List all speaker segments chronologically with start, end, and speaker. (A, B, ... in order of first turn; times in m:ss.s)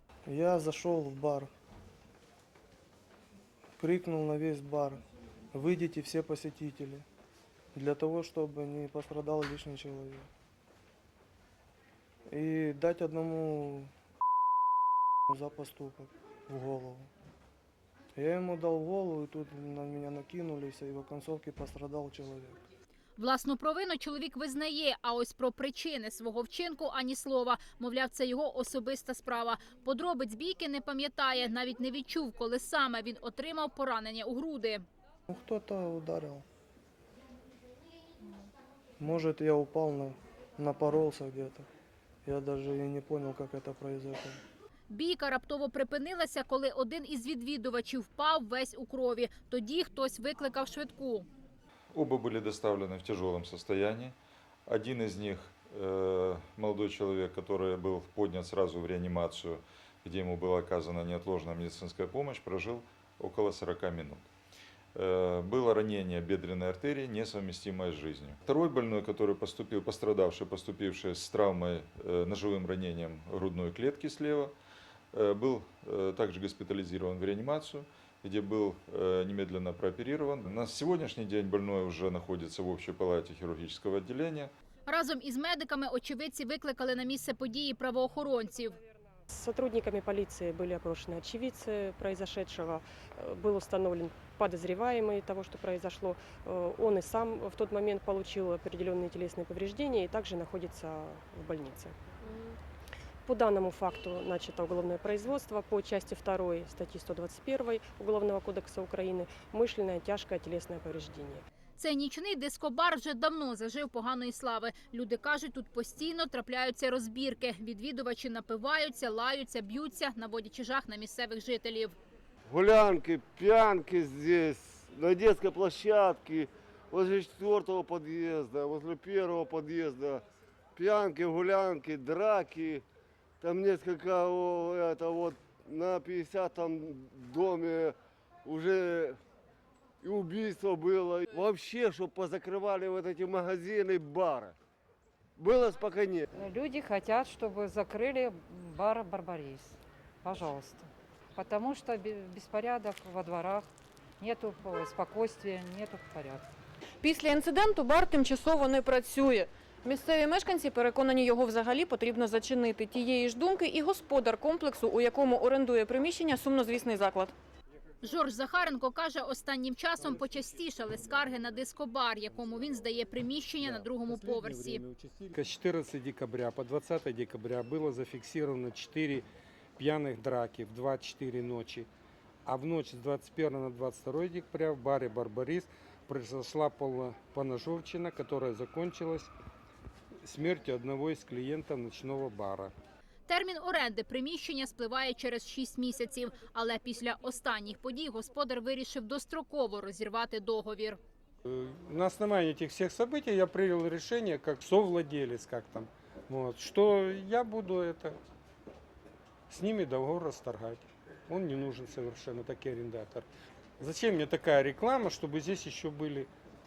0:00.3-0:01.5 A
0:03.8-0:05.0 A
0:05.5-0:07.0 A
0:07.8-0:10.3 A
0:12.3-0:13.9 A
0:15.3-0:17.1 A
0:18.2-0:22.6 A
0:23.2-0:34.8 B
0:35.3-0:36.4 A
0:39.0-0:41.7 A
0:42.2-0:44.4 A
0:44.9-0:51.3 B
0:51.9-1:04.3 C
1:04.9-1:14.6 C
1:15.1-1:24.5 C
1:24.9-1:28.8 B
1:29.3-1:42.6 D
1:43.2-1:51.4 D
1:51.8-2:02.0 B
2:02.5-2:10.2 E
2:10.8-2:12.8 E
2:13.4-2:19.2 E
2:20.0-2:24.6 E
2:25.4-2:26.3 E
2:26.4-2:33.7 F
2:34.2-2:36.4 F
2:37.0-2:47.4 G
2:48.0-2:54.8 B
2:55.3-2:59.2 H
2:59.8-3:01.9 H
3:02.5-3:09.3 H
3:10.2-3:12.7 H
3:13.3-3:21.0 B
3:21.5-3:28.2 H
3:29.5-3:33.3 H
3:33.8-3:36.3 H